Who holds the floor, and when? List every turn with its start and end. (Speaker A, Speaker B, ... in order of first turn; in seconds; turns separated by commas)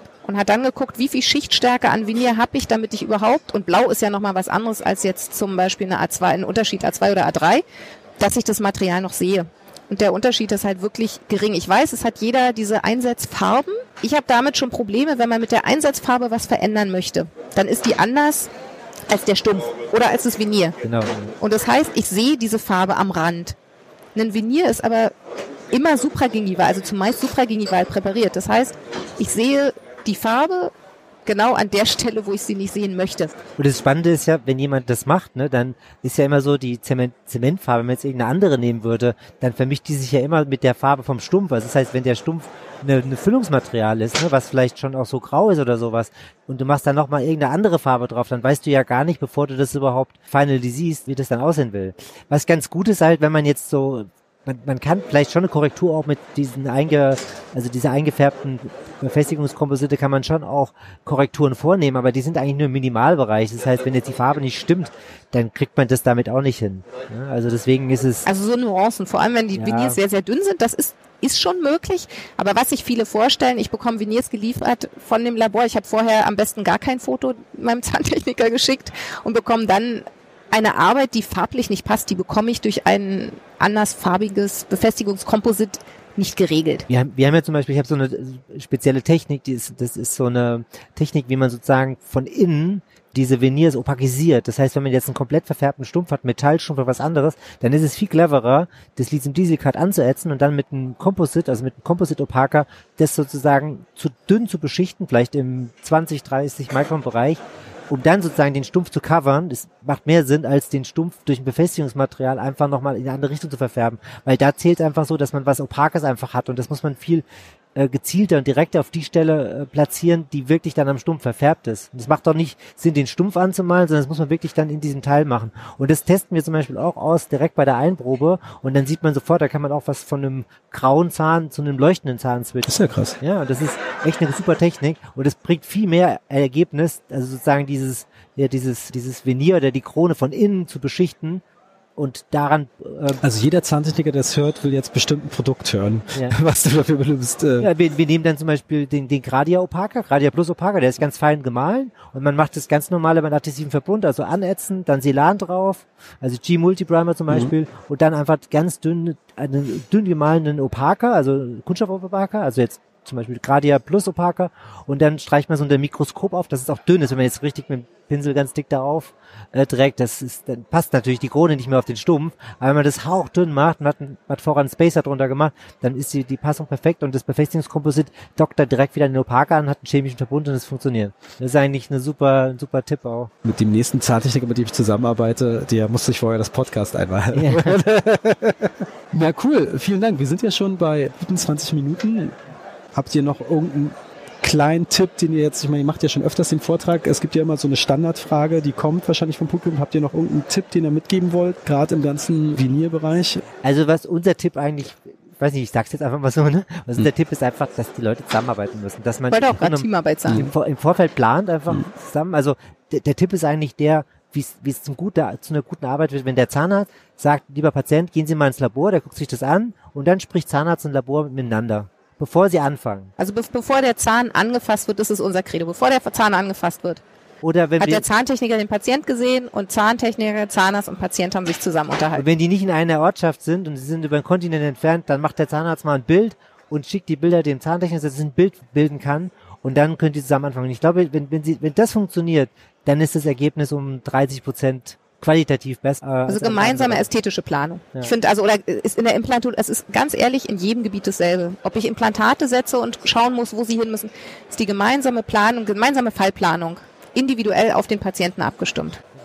Speaker A: 0.2-7.7, Speaker A: 8.2-18.5, Speaker A: 19.1-20.8, Speaker B: 20.8-21.3, Speaker A: 21.4-23.6, Speaker A: 24.1-25.1, Speaker A: 25.7-30.7, Speaker A: 31.3-33.4, Speaker B: 33.6-68.3, Speaker A: 68.3-86.9, Speaker B: 69.5-70.0, Speaker B: 86.9-141.4, Speaker C: 132.7-133.2, Speaker B: 142.0-143.2, Speaker C: 143.2-147.7, Speaker B: 147.6-183.3, Speaker C: 183.4-187.8, Speaker B: 187.3-188.6, Speaker C: 189.1-192.3, Speaker C: 192.9-203.4, Speaker B: 203.6-223.1, Speaker A: 209.3-210.5, Speaker A: 223.2-227.0, Speaker B: 227.4-228.1, Speaker A: 227.8-232.2, Speaker B: 232.2-247.1, Speaker A: 246.3-259.0